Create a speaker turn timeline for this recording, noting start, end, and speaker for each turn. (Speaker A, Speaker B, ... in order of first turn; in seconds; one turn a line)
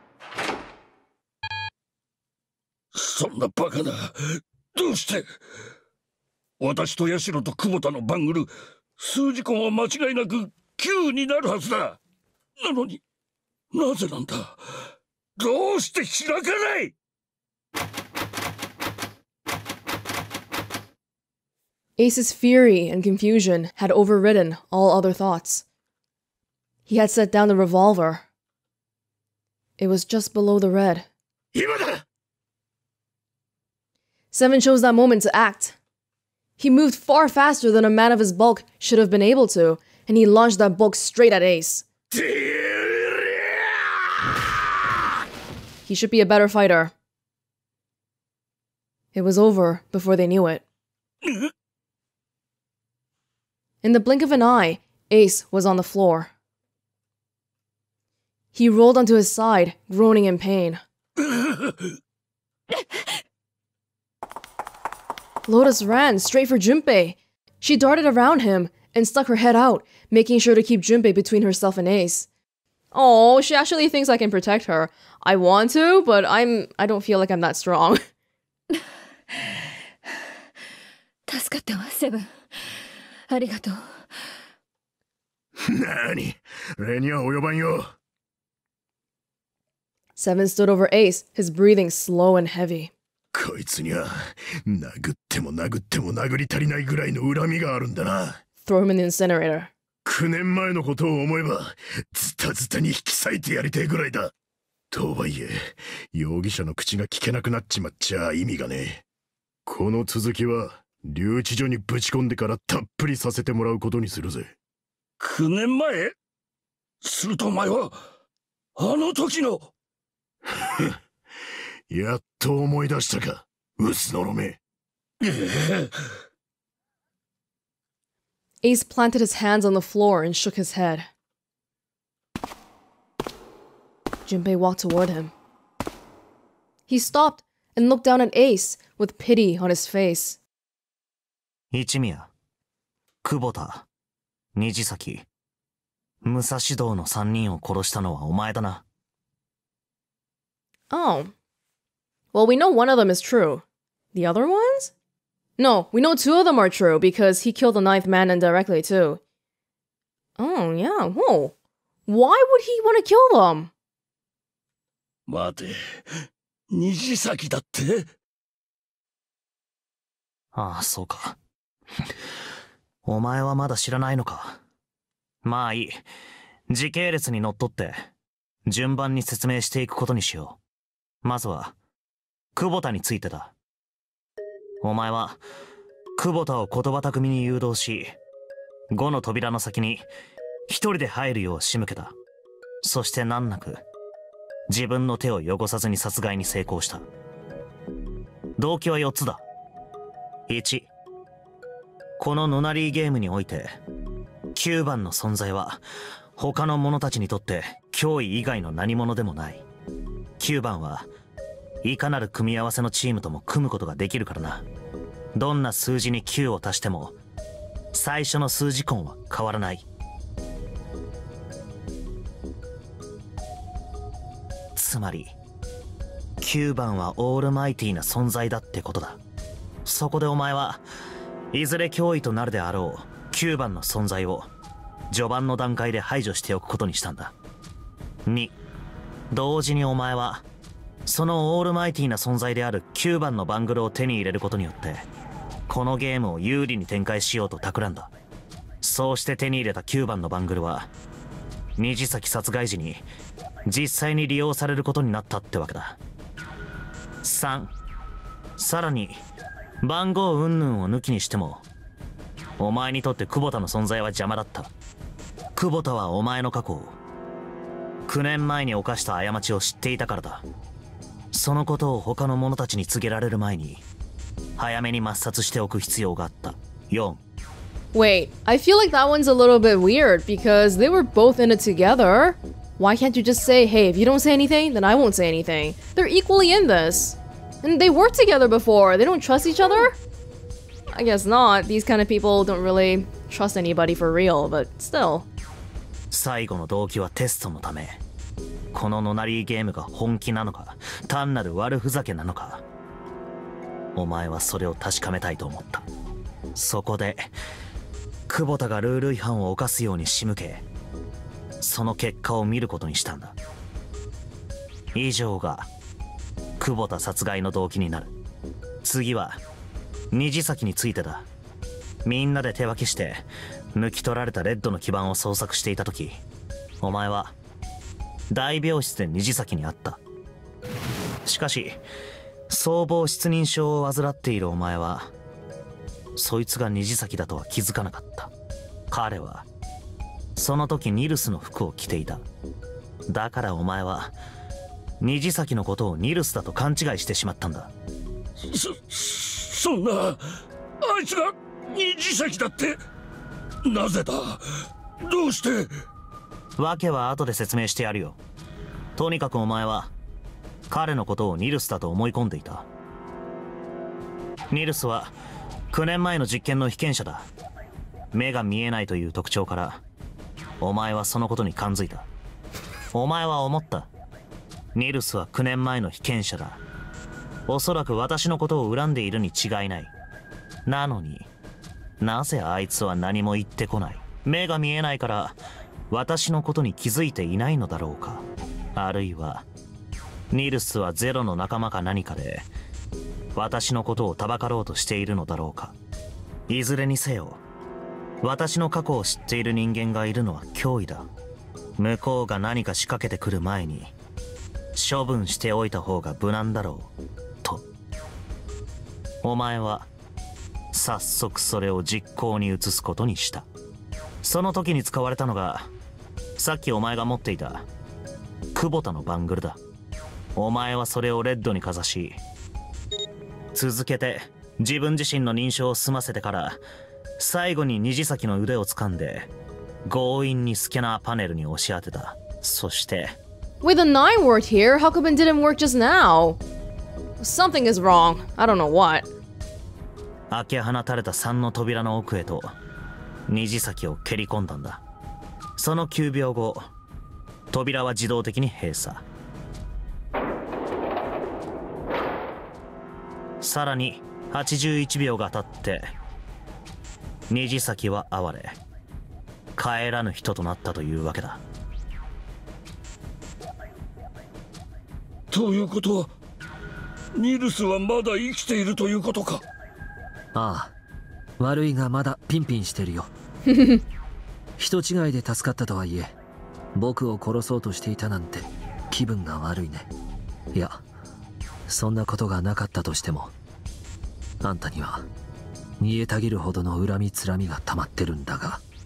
Speaker A: 2.9-5.3
Speaker A: 6.6-12.0
Speaker A: 12.6-13.0
Speaker A: 13.7-14.6
Speaker A: 15.4-16.9
Speaker B: 22.0-25.6
Speaker B: 26.9-28.2
Speaker B: 29.8-31.1
Speaker C: 31.5-32.0
Speaker B: 34.3-35.8
Speaker B: 36.6-41.9
Speaker A: 42.1-44.5
Speaker B: 45.9-46.9
Speaker B: 49.1-50.6
Speaker B: 53.8-56.3
Speaker B: 58.5-60.8
Speaker A: 61.3-61.8
Speaker D: 62.8-63.0
Speaker B: 65.5-72.3
Speaker B: 72.9-78.0
Speaker D: 78.8-79.7
Speaker D: 81.3-82.8
Speaker D: 83.3-84.3
Speaker C: 85.6-87.9
Speaker B: 90.2-92.9
Speaker C: 93.3-98.4
Speaker B: 98.6-99.7
Speaker C: 100.0-104.3
Speaker C: 104.9-109.0
Speaker C: 109.7-114.5
Speaker A: 115.2-116.1
Speaker A: 117.0-118.0
Speaker A: 118.8-119.7
Speaker C: 120.5-121.0
Speaker C: 121.9-124.6
Speaker A: 125.2-125.9
Speaker B: 128.6-131.1
Speaker B: 134.3-135.3
Speaker B: 136.9-140.4
Speaker E: 141.7-142.3
Speaker E: 143.2-143.8
Speaker E: 144.5-145.2
Speaker E: 146.2-148.8
Speaker B: 150.9-151.3
Speaker B: 152.3-153.6
Speaker B: 154.1-154.9
Speaker B: 155.6-159.2
Speaker B: 160.4-161.5
Speaker B: 162.1-163.7
Speaker A: 165.3-166.0
Speaker A: 166.7-168.1
Speaker E: 170.5-171.4
Speaker E: 173.0-174.6
Speaker E: 175.4-176.1
Speaker E: 176.7-178.1
Speaker E: 178.7-180.6
Speaker E: 181.2-181.7
Speaker E: 182.5-183.5
Speaker E: 184.8-185.4
Speaker E: 186.2-188.1
Speaker E: 188.9-190.1
Speaker E: 190.7-192.1
Speaker E: 192.8-193.8
Speaker E: 194.7-197.1
Speaker E: 198.6-199.4
Speaker E: 200.5-200.9
Speaker E: 202.2-203.8
Speaker E: 204.5-205.8
Speaker E: 206.3-209.6
Speaker E: 210.4-211.1
Speaker E: 211.8-214.6
Speaker E: 215.3-217.1
Speaker E: 217.9-219.8
Speaker E: 224.7-225.3
Speaker E: 226.4-229.2
Speaker E: 229.8-230.8
Speaker E: 231.5-234.5
Speaker E: 235.1-237.3
Speaker E: 238.2-238.5
Speaker E: 239.3-240.4
Speaker E: 241.1-245.1
Speaker E: 245.7-248.1
Speaker E: 248.8-250.9
Speaker E: 251.8-253.0
Speaker E: 253.7-256.0
Speaker E: 257.2-257.7
Speaker E: 258.6-259.2
Speaker E: 259.8-261.6
Speaker E: 262.6-264.7
Speaker E: 265.5-267.0
Speaker E: 268.1-270.4
Speaker E: 271.3-273.8
Speaker E: 274.6-277.2
Speaker B: 277.9-290.0
Speaker B: 290.9-295.3
Speaker E: 296.1-298.0
Speaker E: 298.7-302.6
Speaker E: 303.9-305.9
Speaker E: 306.5-307.3
Speaker E: 308.3-310.6
Speaker E: 311.6-313.4
Speaker E: 314.9-315.7
Speaker E: 316.6-318.1
Speaker E: 318.8-319.4
Speaker E: 320.1-321.3
Speaker E: 322.0-326.2
Speaker E: 326.8-327.4
Speaker E: 328.3-330.0
Speaker E: 331.2-331.8
Speaker E: 332.5-335.1
Speaker E: 336.1-338.3
Speaker E: 338.9-339.4
Speaker E: 340.4-342.2
Speaker E: 343.1-344.1
Speaker E: 345.0-347.7
Speaker A: 348.4-350.2
Speaker A: 350.8-352.8
Speaker A: 353.6-354.4
Speaker A: 355.0-355.7
Speaker E: 356.6-358.2
Speaker E: 358.9-359.9
Speaker E: 360.7-362.6
Speaker E: 364.5-365.1
Speaker E: 365.7-367.3
Speaker E: 368.1-369.8
Speaker E: 370.6-372.1
Speaker E: 372.9-373.9
Speaker E: 374.7-376.6
Speaker E: 377.5-379.9
Speaker E: 380.6-381.3
Speaker E: 382.0-385.4
Speaker E: 385.9-388.2
Speaker E: 388.7-389.4
Speaker E: 390.3-392.5
Speaker E: 393.3-395.7
Speaker E: 396.5-397.4
Speaker E: 398.2-401.1
Speaker E: 401.8-403.9
Speaker E: 404.7-406.9
Speaker E: 409.2-409.9
Speaker E: 410.7-413.4
Speaker E: 414.2-415.7
Speaker E: 416.4-417.6
Speaker E: 418.5-419.6
Speaker E: 420.4-422.2
Speaker E: 423.5-426.6
Speaker E: 427.2-429.3
Speaker E: 429.8-433.2
Speaker B: 433.6-436.4
Speaker B: 437.2-439.1
Speaker E: 440.3-442.5
Speaker E: 443.3-444.8
Speaker E: 445.6-446.7
Speaker E: 447.5-449.0
Speaker E: 453.4-455.9
Speaker E: 457.3-458.6
Speaker E: 459.6-461.4
Speaker A: 465.3-466.1
Speaker A: 467.1-469.4
Speaker F: 470.3-470.7
Speaker F: 471.4-473.1
Speaker B: 473.5-473.8
Speaker F: 474.6-476.1
Speaker F: 476.7-479.9
Speaker F: 480.5-480.8
Speaker F: 481.7-483.3
Speaker F: 484.4-485.1
Speaker F: 485.8-488.6